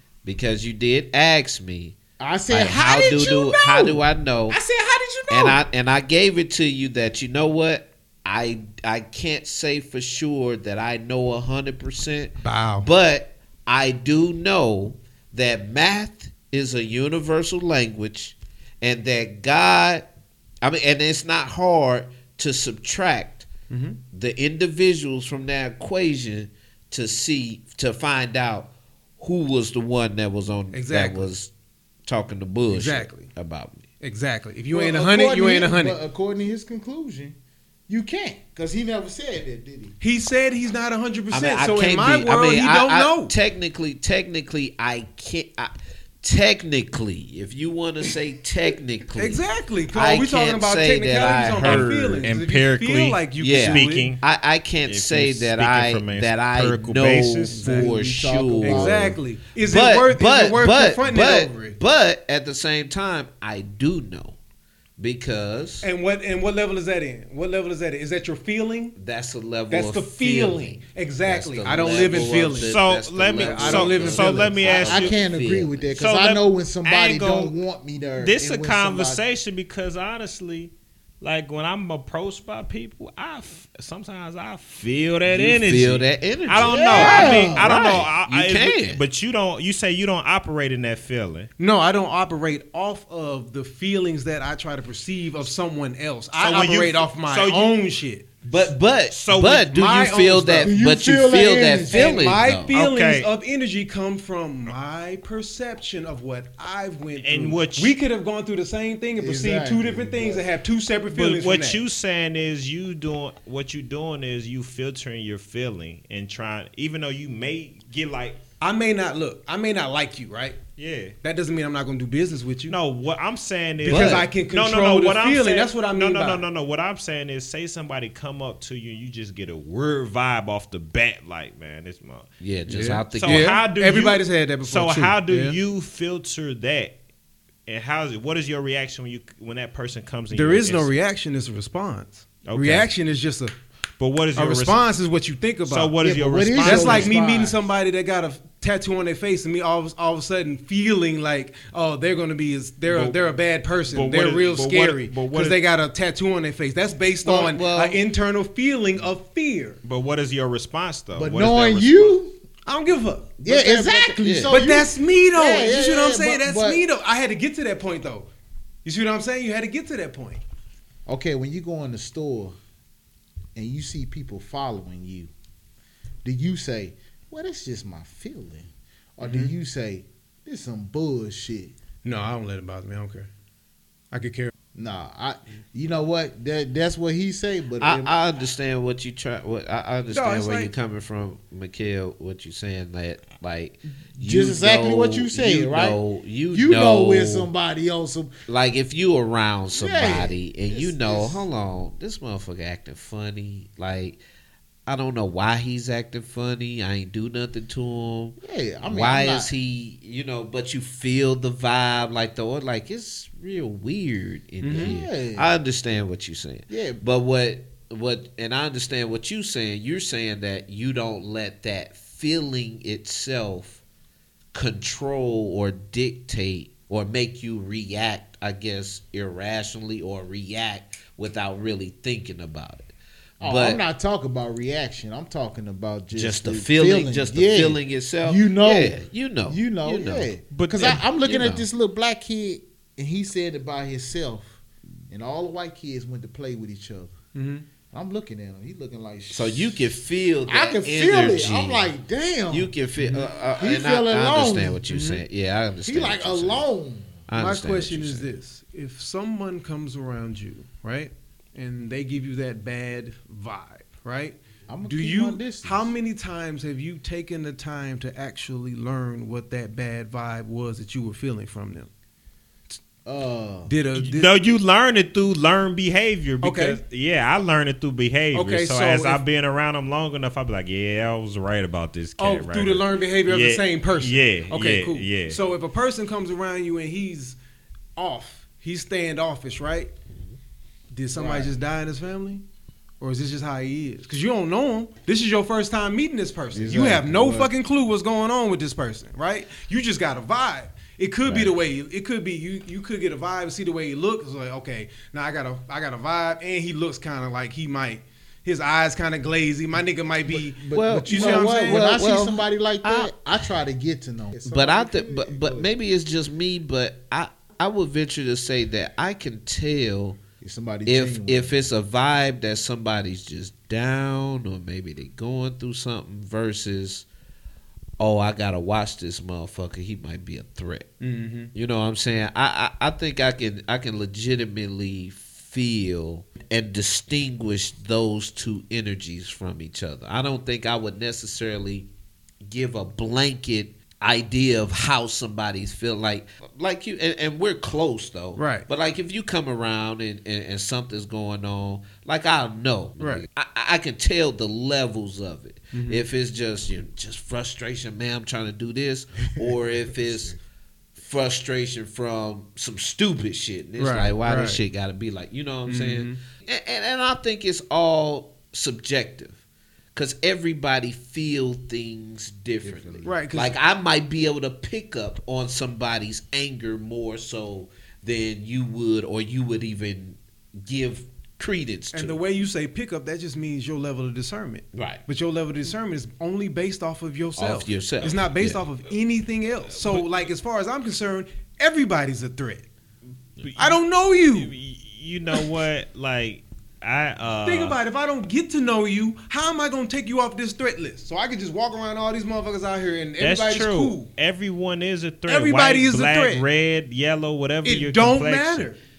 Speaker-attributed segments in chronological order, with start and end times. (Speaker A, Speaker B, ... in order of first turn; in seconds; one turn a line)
Speaker A: 0.2-1.9
Speaker B: 2.2-5.6
Speaker A: 2.5-4.6
Speaker A: 5.3-20.1
Speaker C: 12.4-12.9
Speaker A: 20.6-23.5
Speaker C: 23.7-24.0
Speaker A: 24.1-31.5
Speaker C: 30.7-31.3
Speaker A: 32.0-33.8
Speaker C: 32.7-33.3
Speaker C: 34.0-36.0
Speaker B: 34.7-37.4
Speaker B: 37.9-39.9
Speaker C: 40.0-43.3
Speaker A: 41.3-52.2
Speaker C: 49.2-54.1
Speaker D: 51.6-54.2
Speaker A: 53.4-64.4
Speaker D: 54.8-57.6
Speaker C: 57.5-57.9
Speaker B: 57.6-59.2
Speaker C: 58.6-61.8
Speaker A: 65.0-65.9
Speaker C: 65.8-69.0
Speaker A: 69.0-75.8
Speaker C: 69.7-72.7
Speaker D: 72.1-75.2
Speaker C: 73.4-74.6
Speaker B: 74.4-79.2
Speaker D: 76.0-77.5
Speaker D: 78.2-91.5
Speaker A: 85.3-89.0
Speaker B: 86.6-87.7
Speaker C: 91.6-98.3
Speaker D: 96.4-97.7
Speaker A: 98.4-102.7
Speaker D: 99.1-99.7
Speaker C: 99.7-100.7
Speaker B: 100.6-102.4
Speaker C: 101.9-111.8
Speaker D: 102.7-103.3
Speaker D: 107.2-108.0
Speaker B: 109.2-110.5
Speaker D: 111.1-118.4
Speaker C: 118.6-120.6
Speaker D: 120.8-121.1
Speaker C: 121.2-122.8
Speaker D: 122.7-132.3
Speaker C: 123.8-126.4
Speaker A: 123.9-124.3
Speaker A: 132.4-133.6
Speaker C: 132.7-135.6
Speaker D: 133.1-136.9
Speaker D: 137.7-140.9
Speaker C: 140.3-143.5
Speaker D: 142.4-142.9
Speaker D: 144.0-144.8
Speaker C: 144.3-145.9
Speaker D: 145.7-147.1
Speaker B: 146.0-147.6
Speaker C: 146.6-159.8
Speaker D: 152.9-153.3
Speaker D: 153.9-155.6
Speaker A: 157.2-158.0
Speaker D: 159.8-162.2
Speaker B: 161.1-162.4
Speaker C: 162.7-163.3
Speaker A: 163.4-164.6
Speaker B: 163.4-166.8
Speaker C: 164.5-168.3
Speaker C: 168.8-170.4
Speaker B: 171.1-172.6
Speaker B: 173.5-175.3
Speaker B: 176.2-181.7
Speaker C: 179.2-179.5
Speaker C: 182.0-183.3
Speaker C: 184.1-184.5
Speaker B: 184.7-188.2
Speaker A: 187.8-197.5
Speaker C: 190.1-190.7
Speaker B: 194.2-196.0
Speaker B: 196.5-198.3
Speaker A: 198.5-204.2
Speaker B: 199.7-201.4
Speaker A: 204.8-223.8
Speaker B: 208.4-209.5
Speaker C: 214.6-214.9
Speaker B: 214.7-215.5
Speaker B: 216.7-217.0
Speaker A: 224.5-232.9
Speaker B: 233.4-244.6
Speaker A: 233.4-233.8
Speaker A: 236.1-241.6
Speaker D: 240.5-241.0
Speaker B: 245.1-247.1
Speaker C: 247.3-247.7
Speaker B: 247.9-249.8
Speaker A: 249.3-251.9
Speaker B: 250.4-252.7
Speaker A: 252.5-256.6
Speaker C: 253.0-253.3
Speaker B: 253.6-254.8
Speaker C: 254.9-255.2
Speaker B: 255.8-257.2
Speaker A: 257.3-258.3
Speaker C: 257.4-271.9
Speaker B: 264.7-265.9
Speaker B: 273.0-273.7
Speaker C: 273.7-274.3
Speaker D: 273.9-285.4
Speaker C: 276.4-276.8
Speaker C: 278.3-279.2
Speaker C: 282.2-287.4
Speaker C: 288.0-289.9
Speaker C: 290.9-292.4
Speaker B: 291.1-291.5
Speaker C: 293.0-311.8
Speaker B: 296.5-297.5
Speaker A: 301.2-301.5
Speaker B: 310.2-315.7
Speaker A: 310.7-313.1
Speaker A: 314.4-320.2
Speaker B: 320.4-321.6
Speaker A: 320.9-327.1
Speaker A: 328.0-330.9
Speaker C: 331.0-331.5
Speaker A: 331.5-341.9
Speaker A: 342.4-360.4
Speaker C: 348.4-348.7
Speaker C: 353.0-353.2
Speaker C: 355.7-356.0
Speaker B: 359.3-360.4
Speaker A: 361.0-369.4
Speaker C: 363.8-364.6
Speaker C: 365.7-366.2
Speaker A: 369.9-382.2
Speaker B: 372.6-373.1
Speaker C: 373.0-373.5
Speaker C: 381.9-392.7
Speaker A: 384.7-385.0
Speaker A: 387.4-388.6
Speaker D: 393.4-393.8
Speaker C: 393.6-394.5
Speaker D: 394.3-397.8
Speaker C: 397.4-404.1
Speaker D: 403.2-408.7
Speaker C: 405.3-406.4
Speaker C: 407.6-408.8